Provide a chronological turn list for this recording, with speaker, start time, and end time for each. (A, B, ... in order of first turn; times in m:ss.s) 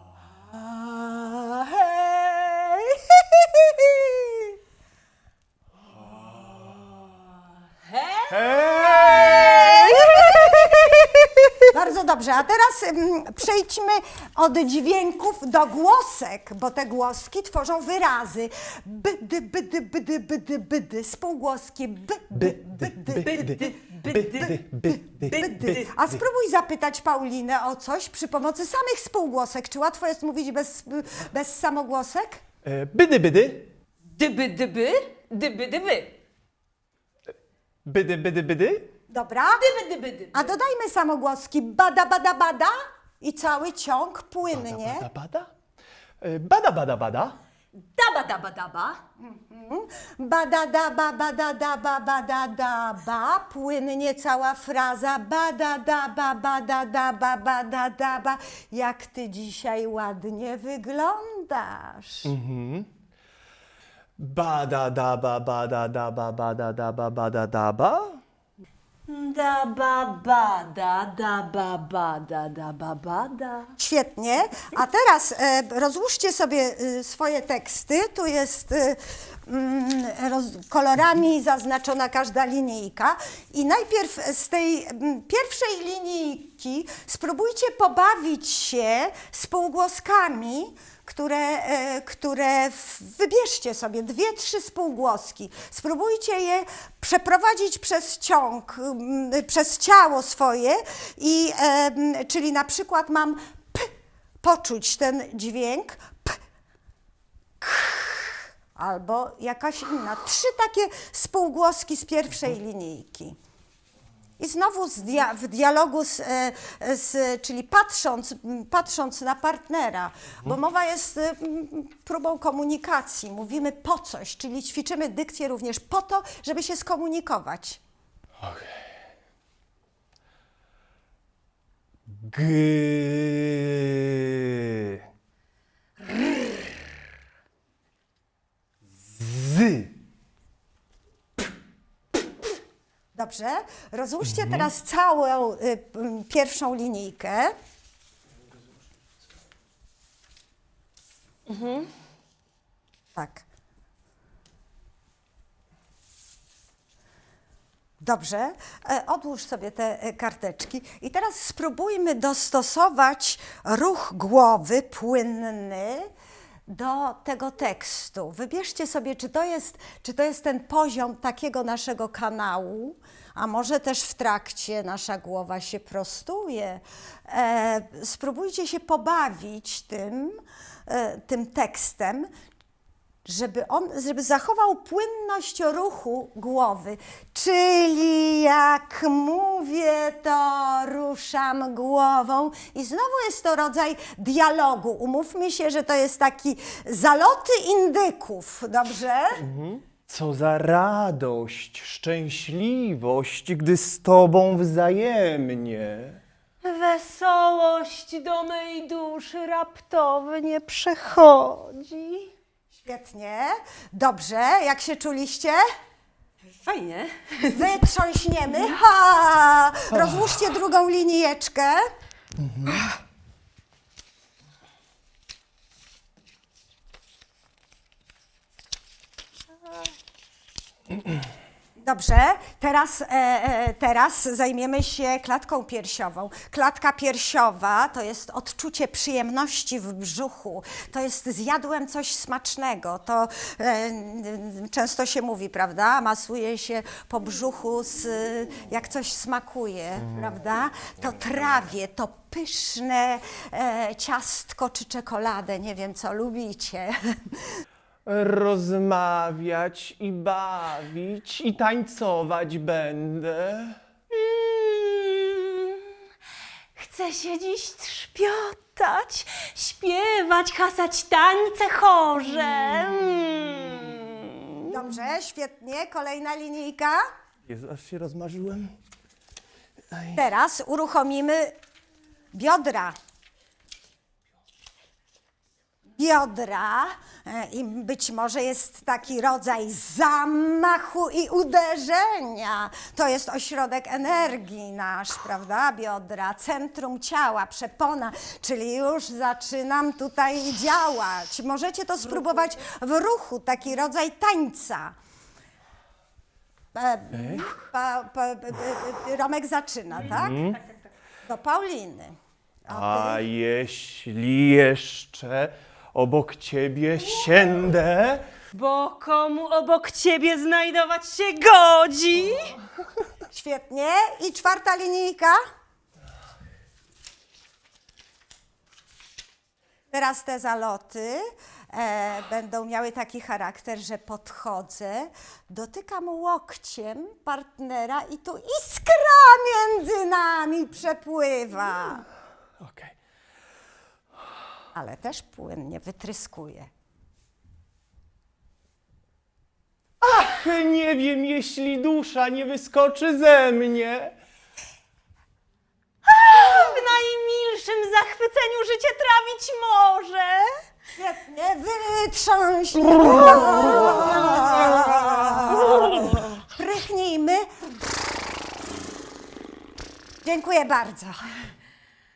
0:00.5-0:04.5 A
0:07.9-0:10.4 B
0:08.3-0:10.6 C
0:11.6-0:23.7 A
0:22.4-0:25.5 C
0:23.3-0:24.6 B
0:25.2-0:25.8 B
0:25.2-0:32.4 A
0:32.6-0:33.7 C
0:34.1-0:36.2 B
0:37.9-0:38.9 C
0:39.1-0:39.7 A
0:39.6-0:40.4 B
0:40.3-0:45.1 A
0:44.6-0:45.5 C
0:46.2-0:47.4 C
0:47.8-0:49.0 B
0:49.2-1:02.3 A
1:02.2-1:02.9 C
1:04.2-1:08.2 C
1:09.1-1:13.7 B
1:13.8-1:46.4 A
1:47.6-1:53.4 A
1:54.4-2:07.8 A
2:12.1-2:15.0 C
2:19.0-2:19.9 C
2:23.2-2:27.5 A
2:31.5-2:31.9 B
2:33.2-2:33.5 A
2:38.0-2:46.1 A
2:46.7-3:02.3 A
3:03.2-3:19.4 A
3:19.4-3:26.2 C
3:26.6-3:32.3 B
3:32.8-3:35.6 A
3:36.5-3:37.6 B
3:37.5-3:41.9 A
3:42.4-3:42.8 C
3:51.8-4:17.6 A
4:18.1-4:23.8 C
4:24.1-4:25.8 B
4:26.8-4:34.7 B
4:34.7-4:37.0 A
4:37.5-4:38.8 C
4:39.9-4:40.2 C
4:40.1-4:41.5 A
4:42.3-4:43.0 A
4:46.0-5:04.9 A
5:06.7-5:10.5 A
5:07.1-5:07.5 C
5:10.3-5:10.6 C
5:11.3-5:13.3 A
5:12.7-5:18.3 C
5:18.5-5:22.6 B
5:23.3-5:25.4 A
5:29.9-5:42.1 A
5:42.6-5:42.9 C
5:44.7-5:46.7 A
5:50.0-5:54.2 C
5:56.0-6:00.5 B
6:01.0-6:07.5 A
6:10.2-6:11.3 A